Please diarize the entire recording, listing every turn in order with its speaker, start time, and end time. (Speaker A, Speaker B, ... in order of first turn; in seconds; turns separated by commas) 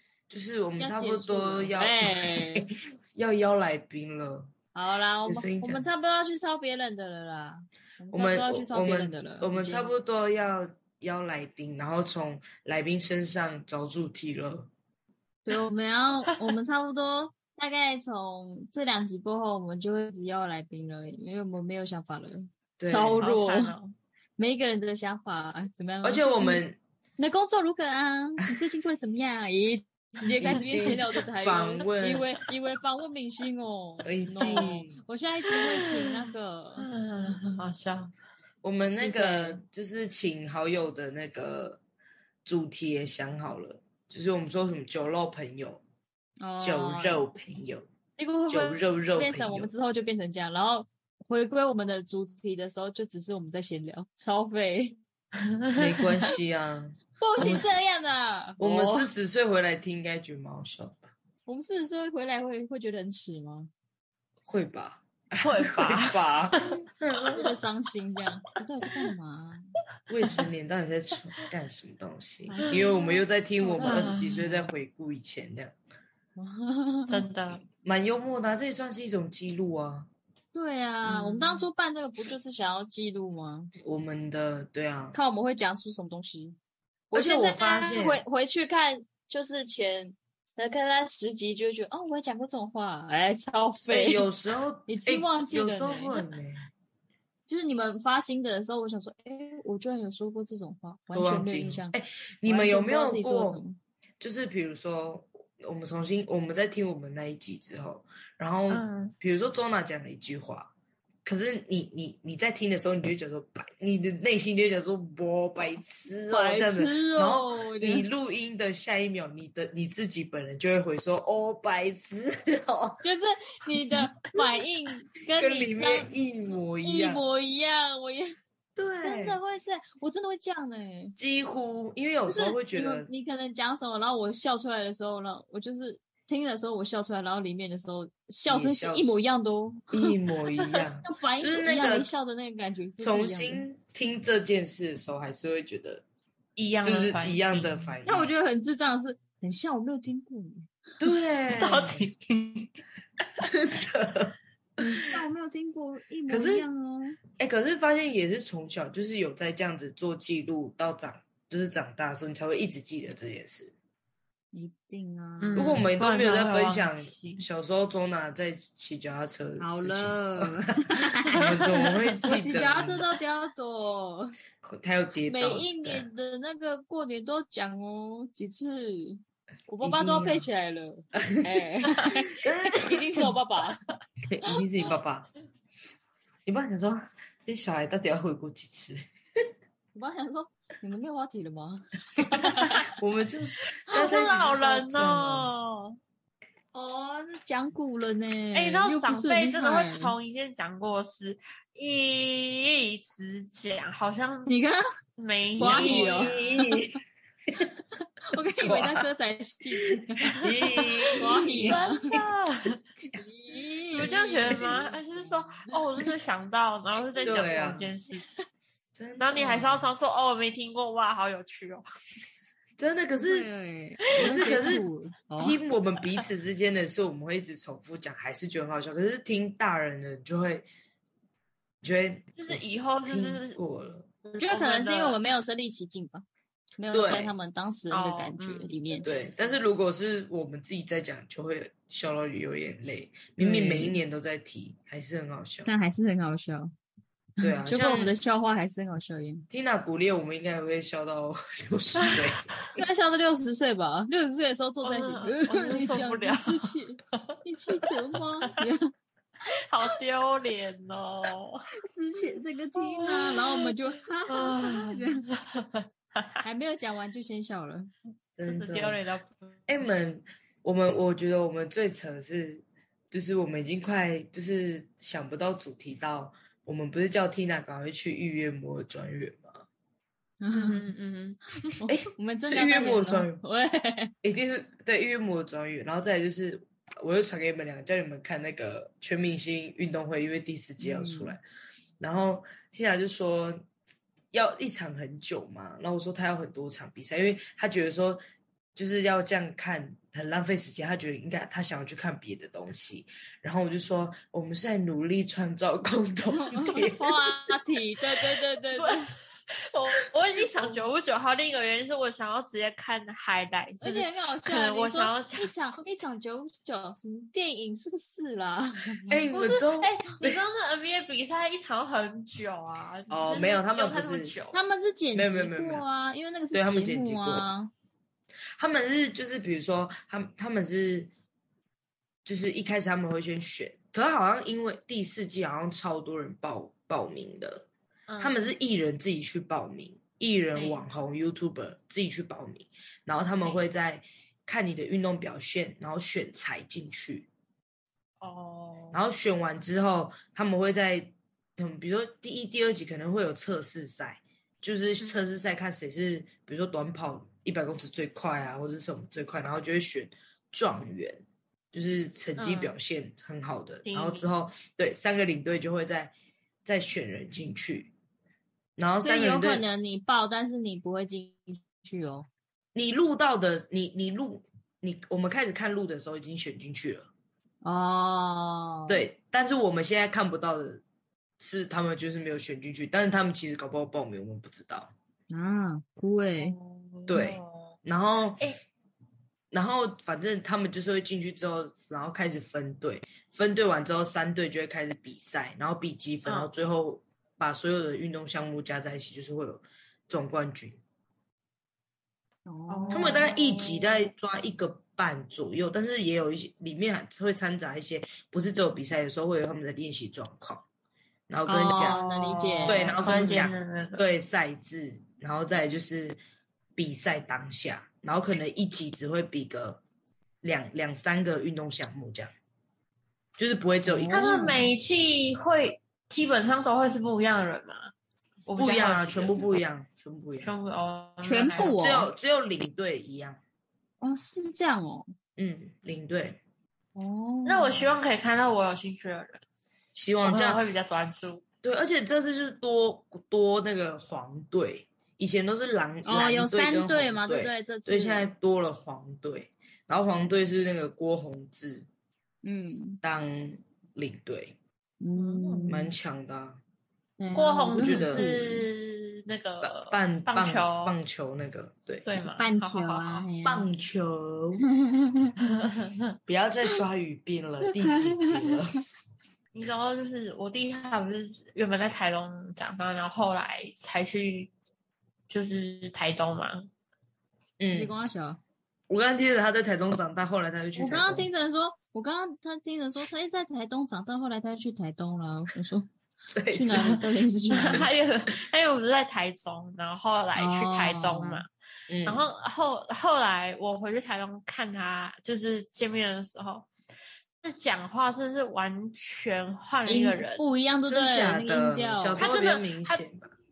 Speaker A: 0.3-4.5, Speaker B: 0.8-2.7, Speaker B: 4.7-9.9, Speaker A: 5.2-5.9, Speaker A: 8.1-14.7, Speaker B: 15.4-23.7, Speaker A: 22.8-23.3, Speaker C: 23.2-23.9, Speaker B: 24.4-26.6, Speaker A: 26.0-26.8, Speaker B: 27.2-36.9, Speaker A: 30.4-32.3, Speaker C: 30.8-31.0, Speaker A: 34.0-35.0, Speaker C: 34.4-34.7, Speaker C: 35.4-36.2, Speaker C: 36.8-38.1, Speaker A: 38.6-41.8, Speaker B: 39.0-39.6, Speaker A: 42.4-45.8, Speaker B: 46.4-47.2, Speaker A: 46.6-47.9, Speaker B: 48.2-55.0, Speaker A: 48.5-49.7, Speaker C: 55.5-56.0, Speaker A: 55.8-57.8, Speaker B: 57.2-59.1, Speaker A: 58.6-61.0, Speaker B: 61.5-63.7, Speaker A: 64.5-67.5, Speaker C: 65.4-66.8, Speaker B: 67.3-69.7, Speaker A: 70.1-75.7, Speaker B: 72.5-74.4, Speaker C: 72.6-72.9, Speaker C: 73.8-74.7, Speaker B: 76.4-77.2, Speaker C: 77.1-77.6, Speaker A: 77.8-80.1, Speaker B: 80.5-83.7, Speaker C: 81.1-81.7, Speaker A: 83.8-85.2, Speaker B: 85.1-86.6, Speaker B: 87.1-94.3, Speaker A: 87.1-88.2, Speaker A: 93.8-96.7, Speaker B: 94.9-96.2, Speaker B: 97.5-103.8, Speaker A: 101.1-103.6, Speaker A: 104.2-110.7, Speaker C: 108.7-109.1, Speaker A: 111.2-123.0, Speaker B: 116.3-118.0, Speaker B: 123.0-126.1, Speaker A: 125.3-127.2, Speaker B: 126.8-128.4, Speaker A: 128.8-129.4, Speaker B: 129.0-131.2, Speaker A: 131.2-133.1, Speaker B: 132.3-139.9, Speaker A: 138.5-139.2, Speaker A: 139.9-142.2, Speaker B: 141.0-143.6, Speaker A: 143.0-146.0, Speaker C: 146.6-147.9, Speaker A: 146.8-148.3, Speaker B: 148.1-150.7, Speaker A: 151.0-152.0, Speaker C: 151.5-152.7, Speaker A: 153.4-154.3, Speaker B: 154.8-157.2, Speaker A: 156.3-156.7, Speaker A: 157.4-163.7, Speaker B: 164.5-165.6, Speaker C: 165.4-167.4, Speaker A: 165.6-170.7, Speaker B: 169.6-174.3, Speaker A: 171.3-173.0, Speaker C: 171.3-171.9, Speaker A: 174.6-176.1, Speaker B: 175.2-183.8, Speaker A: 179.8-180.5, Speaker A: 181.2-181.4, Speaker A: 182.4-183.3, Speaker A: 184.3-185.3, Speaker A: 186.4-189.0, Speaker B: 189.9-192.9, Speaker A: 192.9-195.5, Speaker C: 193.9-196.0, Speaker B: 196.7-200.2, Speaker C: 198.5-204.5, Speaker B: 204.5-204.8, Speaker C: 205.2-206.6, Speaker B: 205.6-206.8, Speaker A: 205.6-207.0, Speaker B: 208.3-210.3, Speaker A: 208.6-209.1, Speaker A: 210.3-211.8, Speaker C: 210.4-212.8, Speaker B: 211.2-212.2, Speaker B: 213.2-215.0, Speaker A: 213.9-214.7, Speaker C: 213.9-218.4, Speaker A: 217.2-217.9, Speaker A: 218.9-219.9, Speaker C: 219.2-221.8, Speaker A: 222.8-223.5, Speaker B: 223.2-225.6, Speaker A: 224.1-224.8, Speaker C: 224.2-224.6, Speaker A: 225.3-230.6, Speaker A: 231.8-234.1, Speaker C: 232.3-233.6, Speaker C: 234.3-235.2, Speaker B: 234.3-236.2, Speaker B: 236.8-239.1, Speaker A: 236.9-237.3, Speaker C: 237.9-239.6, Speaker A: 239.0-245.7, Speaker B: 243.4-243.9, Speaker B: 245.7-246.7, Speaker A: 247.4-248.1, Speaker B: 247.4-249.4, Speaker A: 249.5-252.5, Speaker C: 252.0-252.3, Speaker B: 252.8-258.9, Speaker C: 254.8-258.6, Speaker C: 259.7-261.6, Speaker B: 261.8-265.2, Speaker C: 262.8-263.7, Speaker C: 264.3-266.4, Speaker B: 266.4-267.9, Speaker A: 268.4-269.0, Speaker C: 268.4-270.1, Speaker A: 269.7-279.6, Speaker B: 280.4-280.9, Speaker C: 280.5-281.8, Speaker B: 281.8-284.1, Speaker A: 281.9-283.4, Speaker A: 284.2-291.4, Speaker B: 290.8-291.4, Speaker A: 292.0-293.7, Speaker A: 294.3-298.2, Speaker A: 298.7-307.5, Speaker B: 306.4-309.1, Speaker C: 308.7-315.9, Speaker B: 313.8-320.2, Speaker A: 319.1-320.4, Speaker C: 319.3-319.6, Speaker C: 320.1-324.6, Speaker A: 323.1-324.3, Speaker B: 324.5-327.7, Speaker A: 325.1-325.8, Speaker A: 326.5-327.5, Speaker A: 328.6-331.1, Speaker A: 332.2-337.6, Speaker C: 338.1-338.4, Speaker A: 338.2-347.3, Speaker C: 340.5-340.8, Speaker C: 348.2-349.0, Speaker A: 348.9-366.1, Speaker C: 362.4-362.7, Speaker C: 363.8-364.3, Speaker A: 366.6-367.9, Speaker A: 368.8-369.6, Speaker B: 369.0-372.3, Speaker A: 372.7-377.1, Speaker B: 377.6-379.0, Speaker A: 378.9-380.8, Speaker A: 381.4-384.9, Speaker B: 385.3-386.6, Speaker C: 386.4-387.8, Speaker A: 387.1-388.4, Speaker A: 389.5-400.8, Speaker C: 396.2-396.5, Speaker B: 402.4-403.2, Speaker C: 402.7-404.1, Speaker A: 402.9-410.6, Speaker A: 411.3-412.0, Speaker B: 411.5-413.4, Speaker C: 411.8-414.0, Speaker A: 412.6-416.2, Speaker A: 416.8-419.8, Speaker A: 420.4-422.3, Speaker A: 423.4-424.6, Speaker B: 423.9-424.7, Speaker C: 424.1-427.9, Speaker C: 428.4-429.4, Speaker A: 428.6-430.5, Speaker C: 430.4-431.8, Speaker B: 431.2-432.1, Speaker A: 431.6-433.4, Speaker B: 434.0-435.1, Speaker A: 435.4-436.4, Speaker B: 436.9-437.9, Speaker C: 437.4-439.4, Speaker A: 439.9-440.6, Speaker C: 440.2-441.4, Speaker A: 441.6-451.9, Speaker B: 446.0-448.3, Speaker B: 452.4-453.0, Speaker A: 453.0-454.6, Speaker B: 455.0-455.9, Speaker C: 455.1-455.7, Speaker A: 455.7-456.6, Speaker B: 457.2-458.4, Speaker C: 457.3-460.9, Speaker A: 457.7-458.5, Speaker A: 459.6-462.1, Speaker C: 462.0-463.3, Speaker B: 462.3-463.7, Speaker A: 463.4-464.6, Speaker B: 464.9-465.3, Speaker C: 465.6-466.1, Speaker A: 466.3-468.8, Speaker B: 468.1-468.4, Speaker C: 469.5-474.5, Speaker C: 475.3-476.7, Speaker A: 477.6-477.9, Speaker B: 477.7-478.4, Speaker A: 478.9-481.3, Speaker B: 480.7-485.9, Speaker A: 486.3-487.0, Speaker B: 486.5-487.9, Speaker C: 487.5-491.5, Speaker B: 490.4-491.4, Speaker A: 491.9-492.3, Speaker C: 492.0-496.7, Speaker C: 497.4-500.4, Speaker B: 499.9-502.3, Speaker A: 500.9-503.3, Speaker C: 502.2-503.0